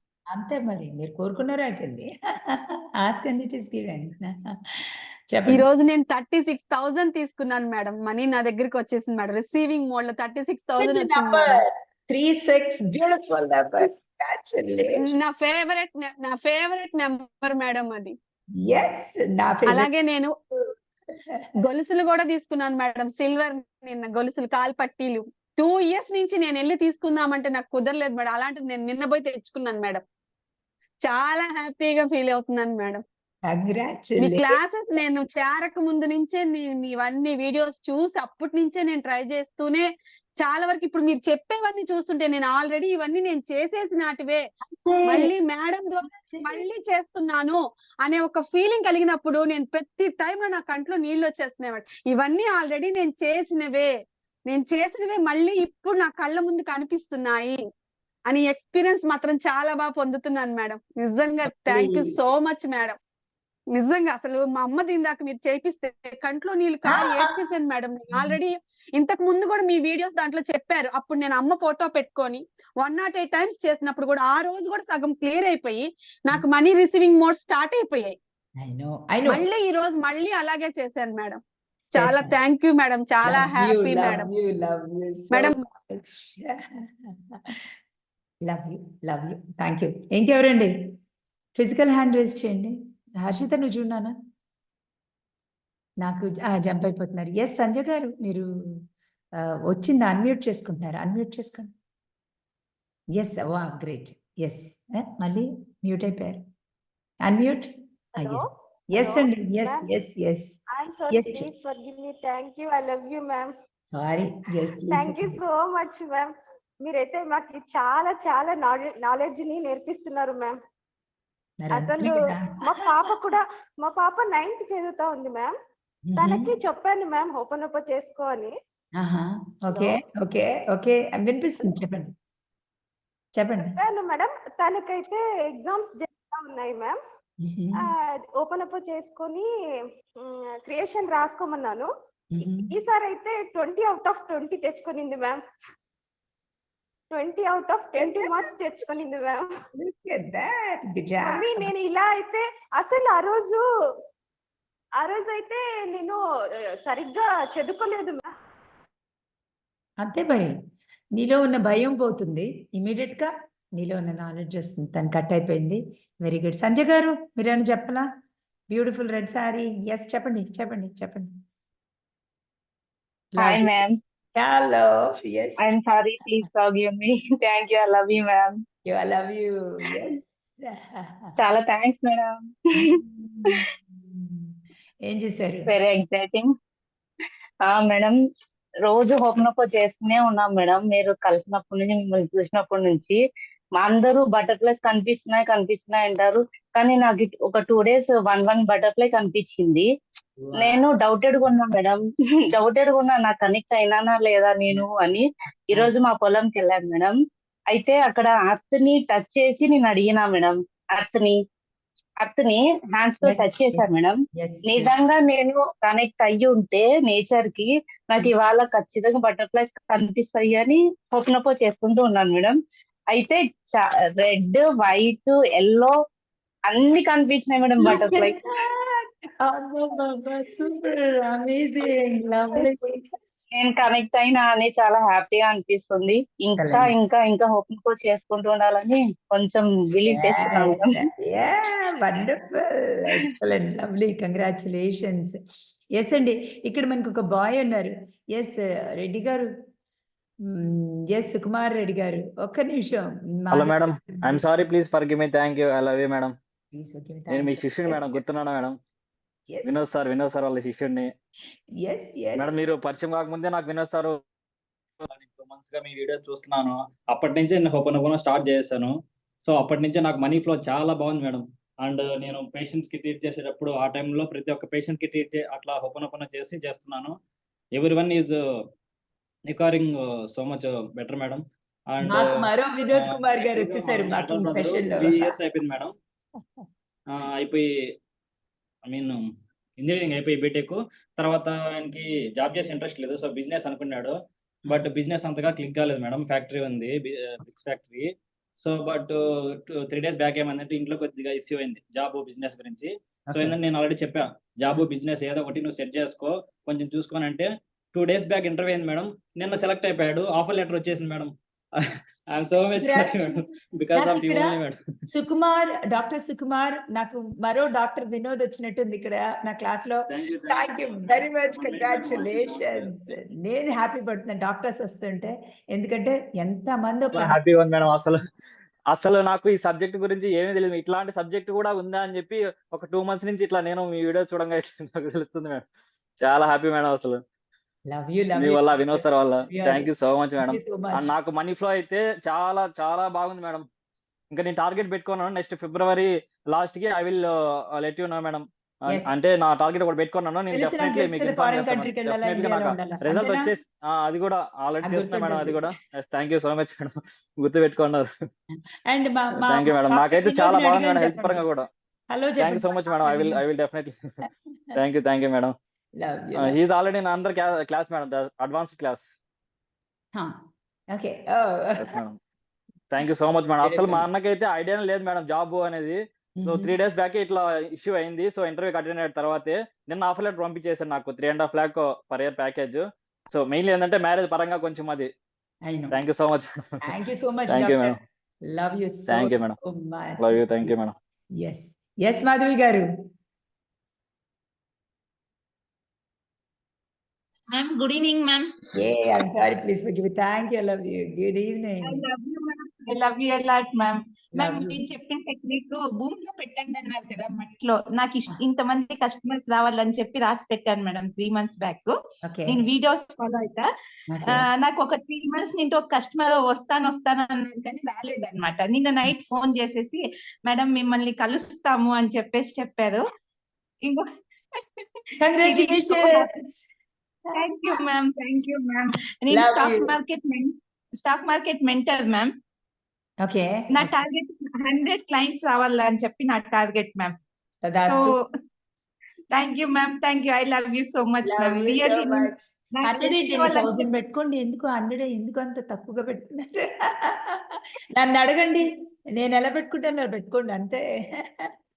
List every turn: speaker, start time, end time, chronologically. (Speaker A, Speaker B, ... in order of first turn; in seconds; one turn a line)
Speaker A: 0.3-5.6
Speaker B: 5.5-11.6
Speaker A: 10.8-15.1
Speaker B: 14.9-18.1
Speaker A: 18.6-19.9
Speaker B: 19.6-20.3
Speaker B: 21.6-30.0
Speaker B: 31.0-33.0
Speaker A: 33.5-34.5
Speaker B: 34.2-39.9
Speaker B: 40.4-44.4
Speaker A: 44.7-45.3
Speaker B: 45.0-53.9
Speaker A: 46.2-46.6
Speaker B: 54.5-57.6
Speaker B: 58.3-63.0
Speaker A: 61.5-62.1
Speaker B: 63.7-78.2
Speaker A: 66.8-67.3
Speaker A: 68.1-68.4
Speaker A: 78.6-79.4
Speaker B: 79.2-81.4
Speaker B: 81.9-84.3
Speaker A: 82.0-82.4
Speaker A: 83.2-87.6
Speaker B: 85.3-85.6
Speaker A: 88.4-90.7
Speaker A: 91.6-94.1
Speaker A: 96.0-98.5
Speaker A: 99.7-101.7
Speaker A: 103.1-106.4
Speaker A: 107.2-110.6
Speaker C: 108.2-109.9
Speaker C: 110.7-113.5
Speaker A: 111.1-111.5
Speaker A: 113.9-115.4
Speaker C: 114.7-120.6
Speaker A: 121.6-123.1
Speaker C: 121.7-125.6
Speaker A: 126.1-126.6
Speaker C: 126.2-128.6
Speaker A: 129.0-132.1
Speaker C: 129.7-130.0
Speaker A: 133.3-133.8
Speaker C: 133.6-137.0
Speaker A: 137.4-137.9
Speaker C: 137.7-145.4
Speaker A: 142.3-142.7
Speaker C: 147.1-149.5
Speaker A: 147.9-149.0
Speaker A: 149.8-151.7
Speaker C: 151.2-153.6
Speaker C: 155.0-156.2
Speaker C: 156.8-158.3
Speaker A: 160.0-160.5
Speaker A: 161.1-168.0
Speaker A: 168.7-171.3
Speaker A: 173.3-173.7
Speaker D: 173.4-173.9
Speaker A: 174.3-175.7
Speaker D: 175.6-178.6
Speaker A: 178.9-181.3
Speaker D: 181.4-183.6
Speaker A: 182.9-184.5
Speaker A: 185.1-185.7
Speaker D: 185.7-186.5
Speaker D: 187.7-188.2
Speaker D: 188.8-193.2
Speaker D: 193.8-199.9
Speaker D: 200.5-207.1
Speaker D: 207.7-211.4
Speaker D: 212.2-222.6
Speaker A: 213.2-214.9
Speaker D: 223.1-225.9
Speaker D: 226.7-228.4
Speaker A: 227.8-233.0
Speaker D: 233.5-241.1
Speaker A: 236.6-236.9
Speaker A: 240.1-245.3
Speaker A: 245.9-249.5
Speaker A: 250.5-254.4
Speaker E: 253.5-256.3
Speaker A: 256.7-258.2
Speaker E: 257.3-258.7
Speaker A: 259.5-259.7
Speaker E: 259.6-261.1
Speaker A: 261.8-262.6
Speaker E: 262.4-264.1
Speaker E: 265.0-268.9
Speaker E: 269.4-277.1
Speaker E: 277.8-278.4
Speaker E: 279.5-281.4
Speaker E: 281.9-282.4
Speaker A: 282.1-285.3
Speaker E: 282.9-285.9
Speaker A: 286.4-286.6
Speaker E: 287.1-287.6
Speaker E: 288.9-289.2
Speaker E: 289.8-294.1
Speaker E: 294.7-299.2
Speaker E: 299.7-311.3
Speaker E: 312.3-314.8
Speaker A: 312.8-313.4
Speaker A: 313.9-314.6
Speaker A: 315.1-327.4
Speaker E: 320.1-322.9
Speaker E: 327.1-328.2
Speaker E: 328.9-335.6
Speaker E: 336.2-337.2
Speaker A: 337.9-341.1
Speaker E: 338.4-343.6
Speaker E: 344.3-358.1
Speaker A: 348.9-349.1
Speaker A: 350.5-353.5
Speaker A: 354.8-355.7
Speaker A: 358.5-361.4
Speaker E: 359.4-361.7
Speaker A: 362.1-363.4
Speaker E: 362.4-364.2
Speaker E: 364.7-365.5
Speaker A: 366.0-366.6
Speaker E: 366.4-369.1
Speaker A: 370.9-371.9
Speaker E: 371.8-372.2
Speaker E: 372.9-385.1
Speaker A: 373.6-374.0
Speaker A: 376.4-376.7
Speaker A: 385.7-386.0
Speaker E: 385.9-386.5
Speaker A: 386.8-387.9
Speaker E: 387.5-387.9
Speaker A: 388.5-390.7
Speaker E: 389.1-389.6
Speaker E: 390.2-390.9
Speaker A: 391.4-392.8
Speaker F: 397.5-398.5
Speaker A: 398.8-402.0
Speaker F: 401.8-411.9
Speaker A: 404.3-404.8
Speaker A: 412.2-412.6
Speaker F: 412.4-413.6
Speaker A: 414.1-414.4
Speaker F: 414.3-423.0
Speaker A: 425.2-426.6
Speaker F: 425.3-426.2
Speaker F: 427.3-432.3
Speaker A: 429.3-430.0
Speaker A: 433.2-434.0
Speaker F: 433.7-437.1
Speaker A: 437.6-438.1
Speaker F: 437.9-438.2
Speaker F: 439.3-443.9
Speaker A: 441.2-448.6
Speaker A: 449.2-450.8